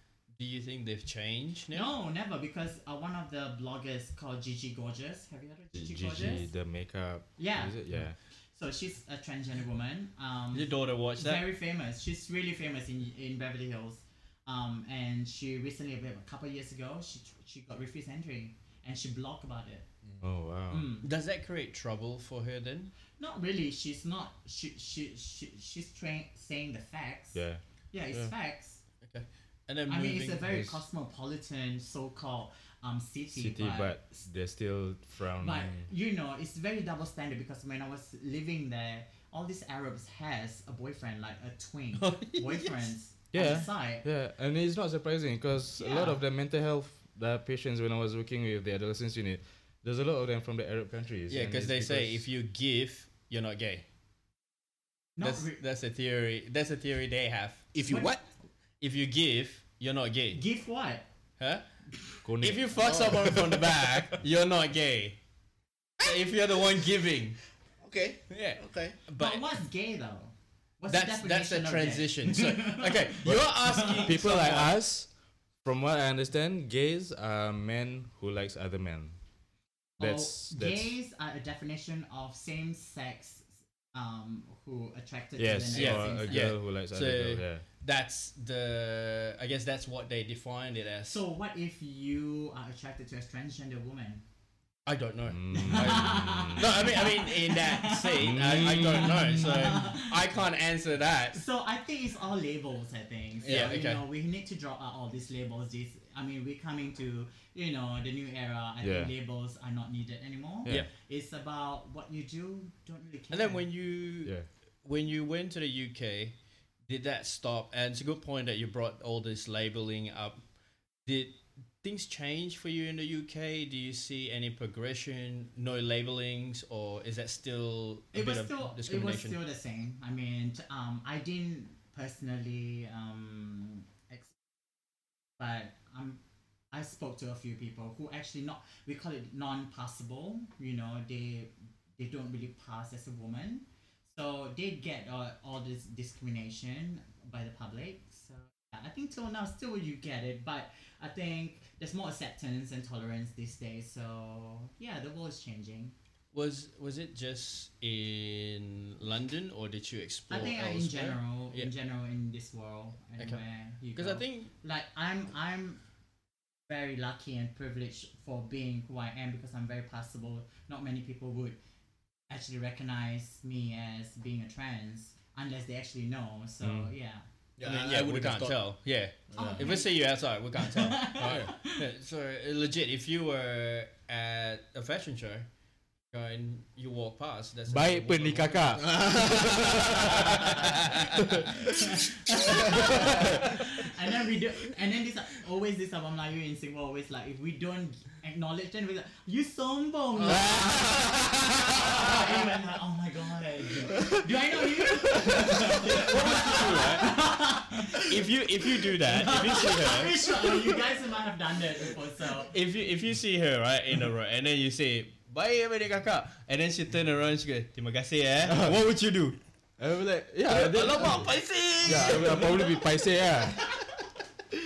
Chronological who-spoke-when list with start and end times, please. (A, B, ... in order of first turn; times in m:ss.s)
0:00.4-0:01.9 A
0:01.7-0:06.5 B
0:05.7-0:08.2 C
0:07.4-0:19.8 B
0:10.5-0:11.4 A
0:20.2-0:20.9 C
0:20.7-0:21.1 B
0:21.0-0:22.9 A
0:23.2-0:28.8 B
0:27.3-0:27.6 C
0:29.0-0:30.7 A
0:29.9-0:34.0 B
0:33.3-0:35.9 C
0:35.4-0:44.0 B
0:42.0-0:42.9 A
0:43.3-0:52.2 C
0:45.8-0:46.2 B
0:51.3-0:53.8 A
0:55.2-0:55.6 B
0:55.2-0:57.7 A
0:57.7-0:58.2 D
0:57.8-0:58.2 B
0:58.8-1:00.4 A
1:00.3-1:01.0 B
1:01.4-1:01.6 A
1:02.2-1:02.9 C
1:02.3-1:05.2 A
1:02.8-1:03.8 D
1:06.0-1:07.4 A
1:07.8-1:09.0 D
1:08.3-1:09.4 A
1:09.2-1:14.2 B
1:10.9-1:14.7 A
1:14.0-1:19.2 C
1:20.0-1:20.9 C
1:20.0-1:26.5 B
1:25.4-1:27.6 C
1:25.7-1:31.2 A
1:31.1-1:34.2 B
1:34.8-1:41.4 A
1:35.2-1:36.8 C
1:35.5-1:40.2 B
1:38.2-1:39.5 C
1:41.3-1:53.7 B
1:43.4-1:44.0 A
1:43.4-1:43.7 D
1:48.8-1:49.1 C
1:53.3-1:56.3 A
1:56.9-2:00.4 A
2:01.0-2:09.4 A
2:08.1-2:14.4 B
2:15.4-2:16.2 B
2:16.7-2:35.9 B
2:36.3-2:41.7 A
2:40.3-2:45.8 B
2:43.2-2:44.5 A
2:46.7-2:51.6 B
2:52.3-2:57.2 B
2:56.6-2:56.9 C
2:57.6-2:58.6 D
2:57.6-3:05.5 A
2:59.3-2:59.6 D
2:59.3-2:59.9 B
3:00.7-3:01.8 B
3:01.2-3:01.5 D
3:06.1-3:09.0 A
3:07.7-3:10.6 C
3:08.9-3:10.3 D
3:11.1-3:11.6 C
3:11.8-3:32.5 B
3:12.2-3:13.4 D
3:12.5-3:13.4 C
3:20.3-3:22.1 D
3:25.2-3:30.2 A
3:32.4-3:39.4 A
3:38.4-3:38.8 C
3:39.8-3:43.8 C
3:40.5-3:42.8 A